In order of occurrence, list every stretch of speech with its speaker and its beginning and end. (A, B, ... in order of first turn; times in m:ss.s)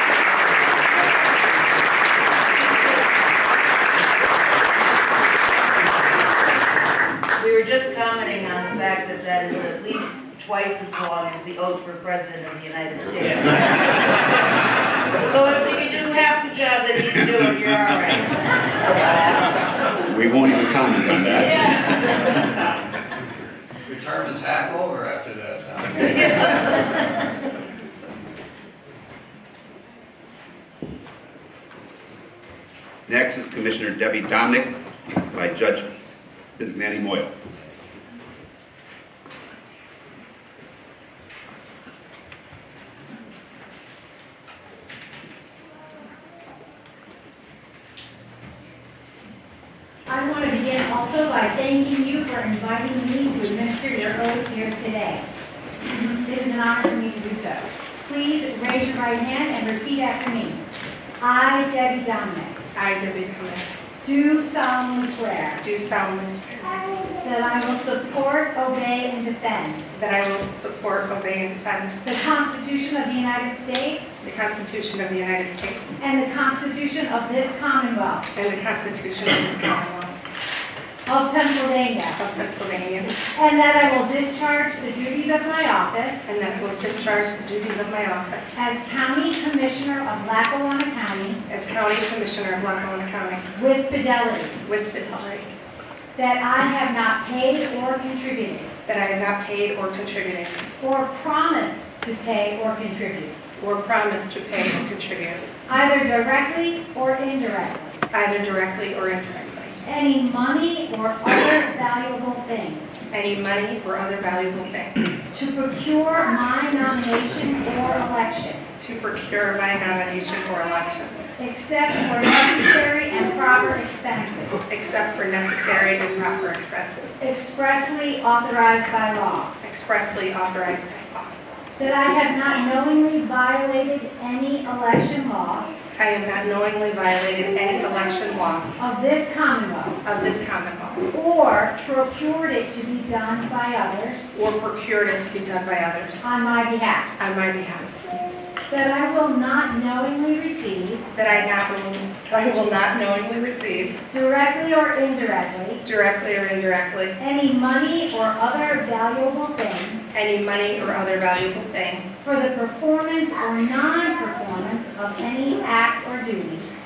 0:07.4-0:14.4 A
0:15.2-0:19.5 A
0:20.1-0:21.6 B
0:21.1-0:22.1 A
0:23.9-0:26.2 C
0:26.0-0:26.8 A
0:33.1-0:34.7 B
0:35.3-0:35.8 B
0:36.6-0:37.3 B
0:50.1-0:55.2 D
0:55.8-1:00.6 D
1:01.2-1:02.6 D
1:02.7-1:03.7 E
1:04.0-1:05.6 D
1:05.6-1:06.8 E
1:07.1-1:09.9 D
1:09.9-1:12.0 E
1:12.0-1:14.2 D
1:14.2-1:16.0 E
1:16.0-1:18.2 D
1:18.3-1:20.1 E
1:21.0-1:22.2 D
1:22.2-1:23.1 E
1:23.3-1:26.3 D
1:26.2-1:28.6 E
1:28.5-1:31.4 D
1:31.5-1:33.4 E
1:33.5-1:34.6 D
1:34.6-1:35.5 E
1:36.2-1:38.7 D
1:38.9-1:40.6 E
1:40.8-1:43.3 D
1:43.6-1:45.4 E
1:45.7-1:48.0 D
1:48.1-1:49.8 E
1:49.8-1:53.0 D
1:53.1-1:55.0 E
1:55.3-1:58.6 D
1:58.8-2:01.2 E
2:01.4-2:04.7 D
2:04.7-2:07.2 E
2:07.2-2:09.5 D
2:09.6-2:11.4 E
2:11.8-2:15.7 D
2:15.9-2:18.7 E
2:18.8-2:20.0 D
2:20.0-2:21.1 E
2:21.1-2:24.3 D
2:24.3-2:26.2 E
2:26.2-2:27.1 D
2:27.2-2:28.0 E
2:28.7-2:31.0 D
2:31.1-2:34.0 E
2:34.1-2:35.8 D
2:35.8-2:37.1 E
2:37.2-2:40.0 D
2:40.1-2:42.1 E
2:42.2-2:46.7 D